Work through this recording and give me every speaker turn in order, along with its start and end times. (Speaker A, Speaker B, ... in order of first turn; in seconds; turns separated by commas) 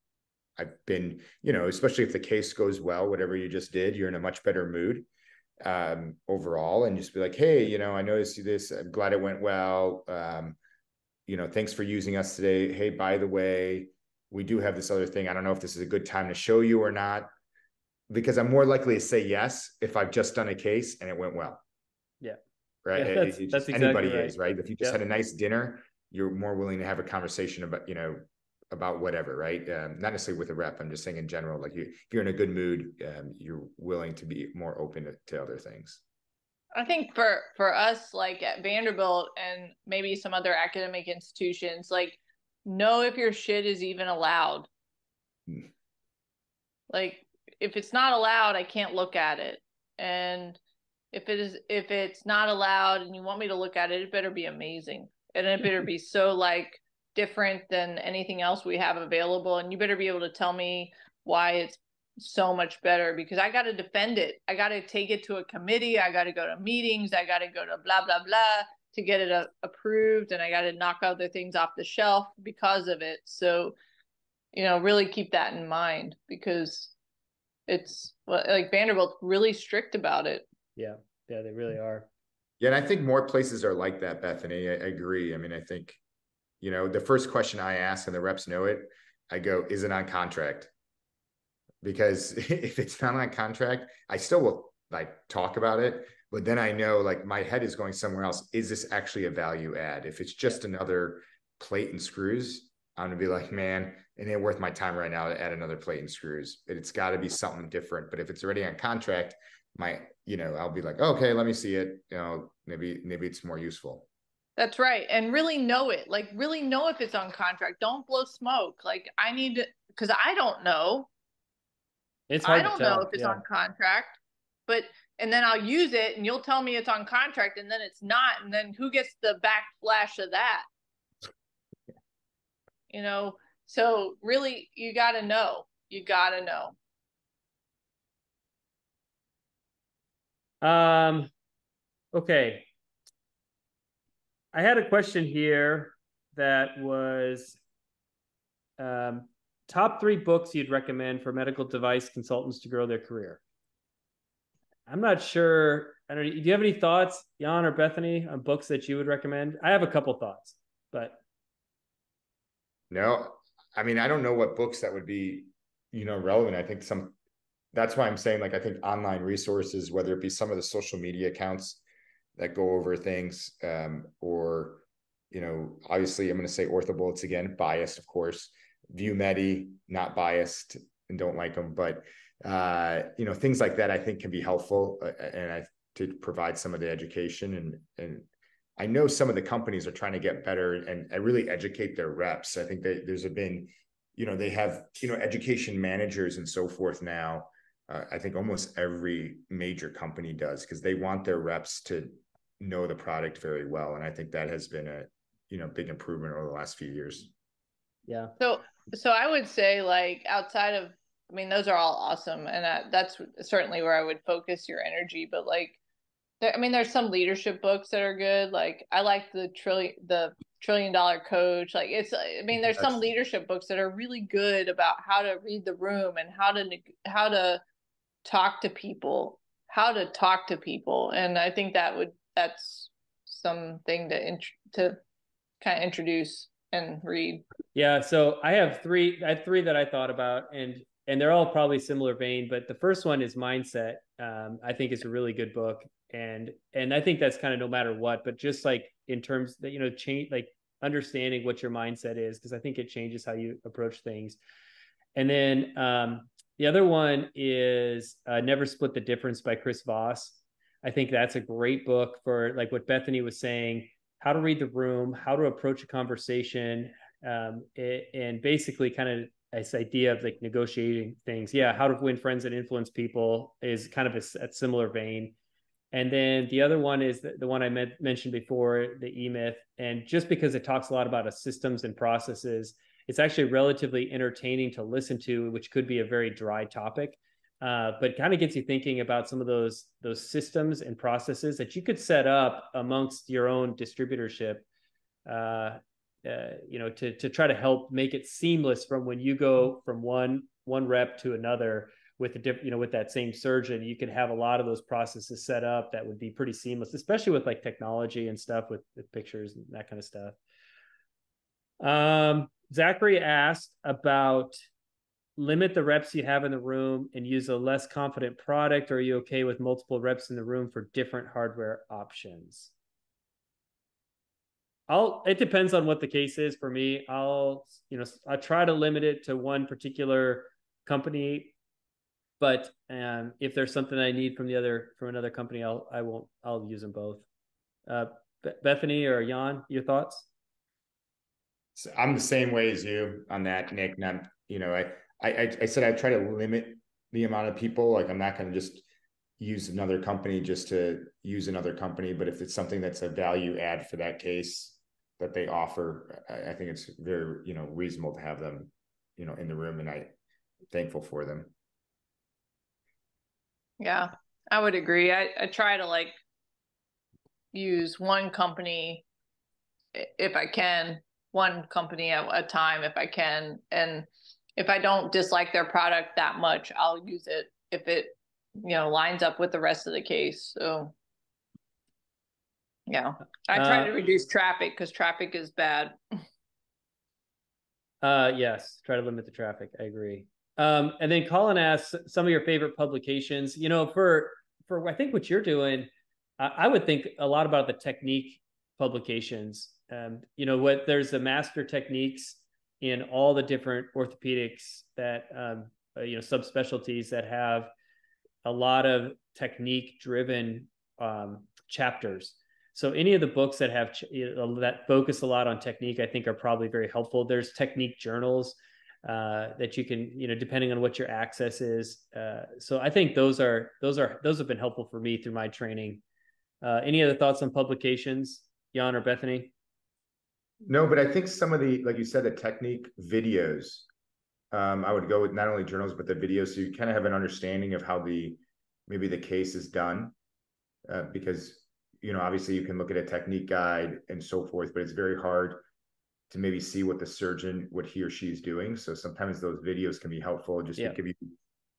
Speaker A: 0.6-5.1, Speaker A: 5.6-10.6, Speaker A: 11.3-17.3, Speaker A: 18.1-21.6, Speaker A: 22.8-36.0, Speaker B: 22.9-25.0, Speaker C: 36.7-44.7, Speaker C: 46.9-50.6, Speaker C: 51.1-73.8, Speaker C: 74.5-76.9, Speaker C: 77.7-80.5, Speaker B: 80.8-82.1, Speaker A: 82.6-86.0, Speaker A: 86.6-90.7, Speaker A: 91.8-114.1, Speaker C: 114.6-121.1, Speaker B: 122.3-123.4, Speaker C: 122.4-130.7, Speaker C: 132.9-136.7, Speaker B: 140.6-141.3, Speaker B: 142.1-142.7, Speaker B: 144.5-147.6, Speaker B: 148.8-153.4, Speaker B: 154.9-161.2, Speaker A: 162.9-167.2, Speaker A: 167.7-171.8, Speaker A: 172.4-188.3, Speaker A: 188.8-207.3, Speaker B: 208.1-208.3, Speaker C: 208.4-215.8, Speaker C: 216.4-227.6, Speaker C: 228.2-235.0, Speaker C: 235.6-237.4, Speaker B: 237.7-254.4, Speaker B: 255.1-275.3, Speaker B: 275.9-294.6, Speaker B: 295.2-310.4, Speaker B: 311.8-314.6, Speaker B: 315.4-322.7, Speaker B: 324.9-331.5, Speaker B: 332.4-337.2, Speaker B: 337.9-340.3, Speaker A: 341.8-348.9, Speaker A: 349.4-360.1, Speaker A: 360.7-361.5, Speaker C: 363.8-366.2, Speaker C: 367.5-369.0, Speaker C: 369.9-380.9, Speaker C: 382.9-386.0, Speaker B: 383.5-383.9, Speaker B: 388.0-407.7, Speaker B: 408.4-426.0, Speaker B: 426.6-429.5, Speaker A: 430.6-433.9, Speaker A: 434.5-440.1, Speaker A: 440.9-445.6, Speaker A: 446.3-451.3